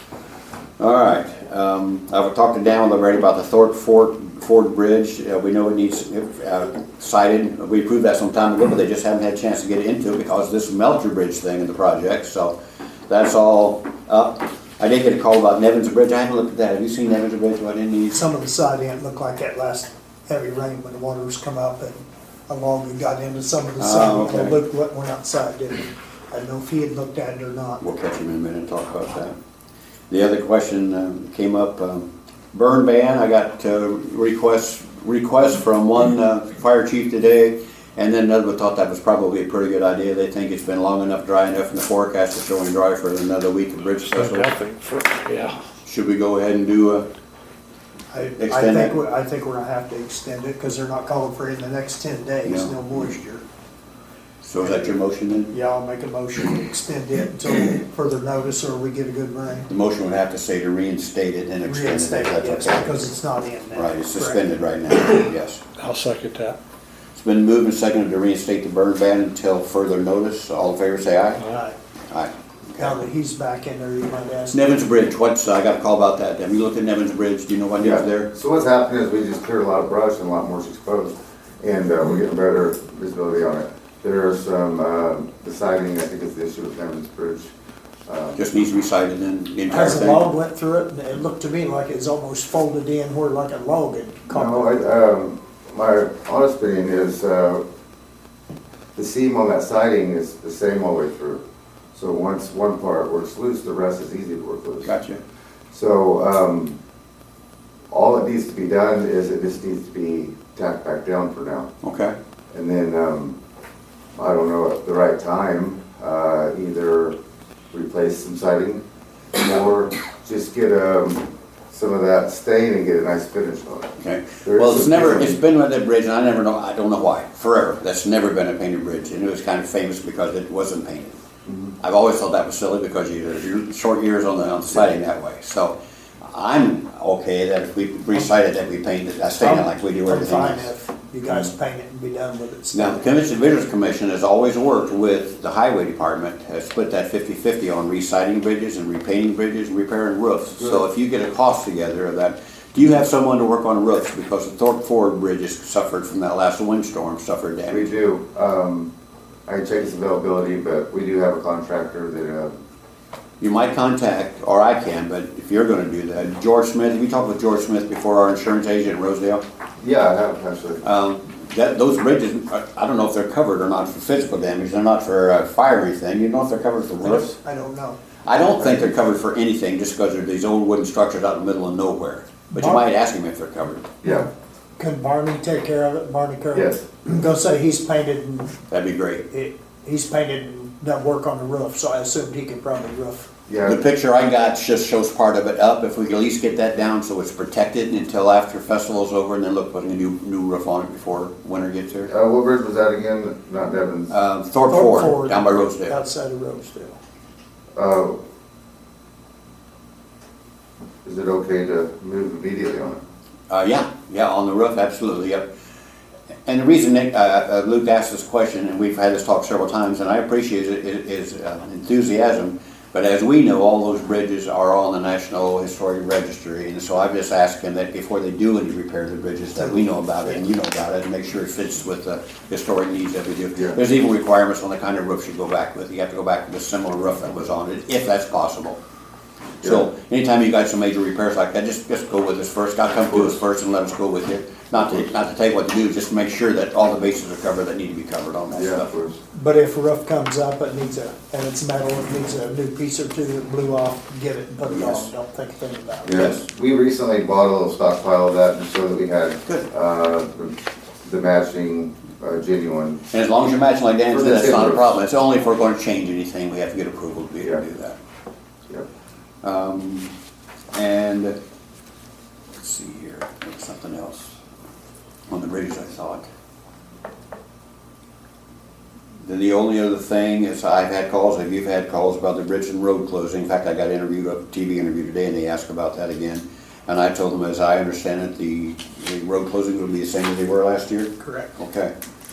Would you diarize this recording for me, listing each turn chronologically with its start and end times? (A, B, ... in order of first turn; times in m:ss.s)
0:00.8-0:12.5 A
0:13.1-0:18.2 A
0:18.1-0:27.8 B
0:23.8-0:24.6 A
0:27.8-0:29.4 A
0:30.1-0:44.6 A
0:44.0-0:45.6 C
0:45.8-0:47.1 A
0:48.1-0:53.4 B
0:48.4-0:49.0 A
0:52.4-0:53.2 A
0:54.4-0:55.5 A
0:54.6-0:55.0 B
0:55.5-0:59.7 B
0:59.7-1:03.0 A
1:01.6-1:04.4 B
1:03.7-1:05.6 A
1:05.8-1:06.6 C
1:07.2-1:11.4 A
1:11.4-1:11.8 B
1:12.1-1:13.0 A
1:12.8-1:14.6 B
1:14.5-1:18.3 A
1:17.8-1:27.5 D
1:28.1-1:28.4 D
1:28.4-1:30.3 A
1:29.7-1:34.7 B
1:34.3-1:37.6 D
1:39.0-1:41.4 D
1:41.9-1:44.9 D
1:44.8-1:45.2 A
1:45.7-1:46.8 D
1:47.9-1:51.7 D
1:51.8-1:52.2 A
1:52.5-1:53.4 D
1:54.2-1:57.2 D
1:57.7-1:58.8 D
1:59.4-2:03.9 D
2:04.0-2:11.2 A
2:04.4-2:05.4 D
2:11.5-2:11.7 D
2:11.8-2:20.7 A
2:19.4-2:23.0 B
2:22.7-2:37.9 A
2:30.6-2:30.8 D
2:37.7-2:38.9 D
2:39.5-2:42.5 D
2:43.4-2:49.4 A
2:49.8-2:50.8 D
2:50.8-2:57.4 A
2:57.0-2:58.0 B
2:58.2-3:03.9 A
3:02.5-3:02.8 B
3:04.0-3:04.3 D
3:04.8-3:08.6 B
3:06.5-3:06.8 D
3:08.7-3:09.2 A
3:09.3-3:13.3 B
3:13.5-3:13.8 D
3:13.6-3:22.1 A
3:22.1-3:24.1 D
3:24.1-3:26.0 A
3:24.7-3:27.0 B
3:27.8-3:28.2 D
3:31.0-3:33.0 D
3:33.5-3:35.4 A
3:36.5-3:58.8 A
3:59.6-3:59.9 D
3:59.6-4:08.9 A
4:03.1-4:03.4 D
4:08.5-4:09.2 D
4:09.3-4:16.2 B
4:14.7-4:15.1 A
4:16.0-4:23.0 D
4:16.1-4:16.4 A
4:23.1-4:28.0 A
4:24.1-4:25.0 D
4:29.4-4:30.1 A
4:30.7-4:31.4 A
4:32.6-4:34.4 A
4:35.3-4:36.3 A
4:39.2-4:51.9 A
4:51.2-4:51.5 B